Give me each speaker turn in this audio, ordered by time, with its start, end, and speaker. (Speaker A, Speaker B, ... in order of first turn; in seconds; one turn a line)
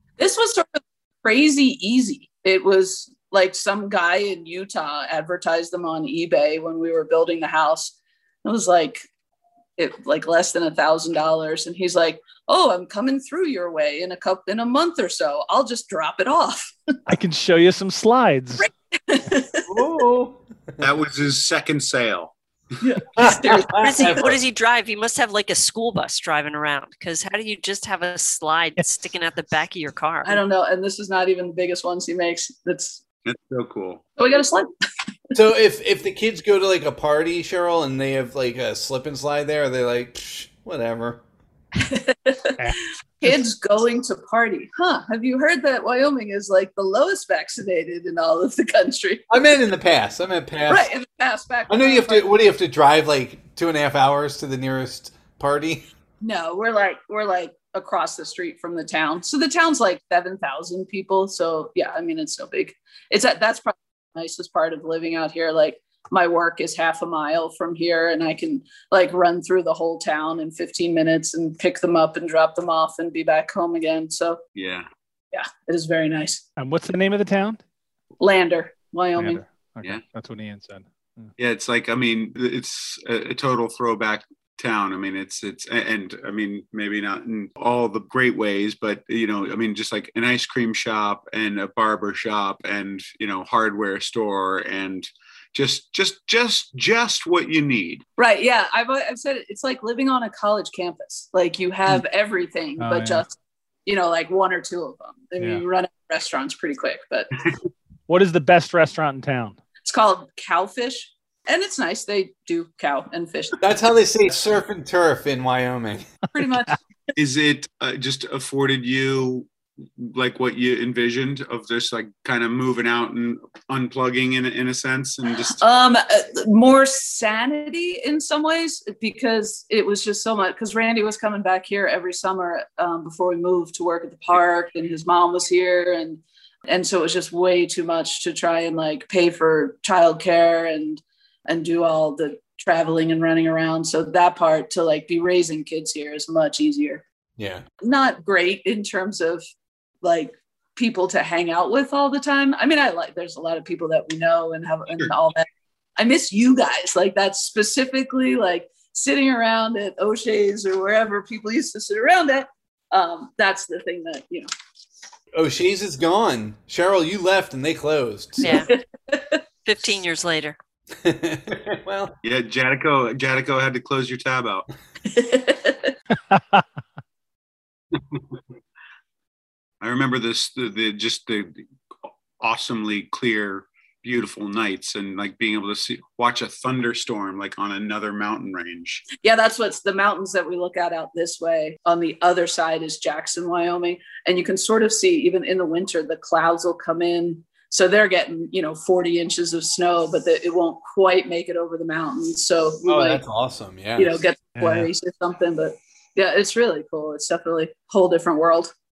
Speaker A: 0.2-9.0
Speaker A: 9.8-16.7
Speaker B: 17.1-18.7
Speaker A: 18.6-19.7
Speaker C: 19.7-20.9
Speaker D: 20.8-22.3
Speaker A: 22.8-24.3
Speaker C: 23.2-24.4
Speaker E: 23.7-30.4
Speaker A: 30.2-33.0
Speaker D: 33.3-34.0
Speaker A: 34.2-34.7
Speaker C: 35.3-41.2
Speaker A: 41.8-42.6
Speaker A: 43.2-49.3
Speaker C: 49.3-50.9
Speaker A: 50.7-52.3
Speaker C: 51.7-55.9
Speaker A: 56.2-74.4
Speaker D: 74.6-74.9
Speaker A: 75.3-76.4
Speaker B: 76.6-77.6
Speaker A: 78.2-79.4
Speaker B: 79.2-81.3
Speaker D: 81.4-98.0
Speaker A: 98.2-107.3
Speaker B: 102.8-103.2
Speaker B: 108.1-109.6
Speaker A: 109.8-113.6
Speaker C: 113.6-116.1
Speaker A: 116.3-116.8
Speaker D: 117.2-125.6
Speaker A: 125.5-147.0
Speaker C: 147.4-147.7
Speaker A: 147.8-149.4
Speaker A: 150.0-164.5
Speaker C: 165.3-168.6
Speaker E: 168.4-168.7
Speaker A: 168.4-169.4
Speaker E: 169.7-170.6
Speaker C: 171.0-172.2
Speaker D: 172.2-174.7
Speaker A: 175.1-175.9
Speaker B: 176.3-176.6
Speaker D: 179.8-181.6
Speaker D: 182.4-189.0
Speaker A: 189.2-203.2
Speaker C: 202.8-204.2
Speaker A: 204.0-208.7
Speaker B: 204.6-204.9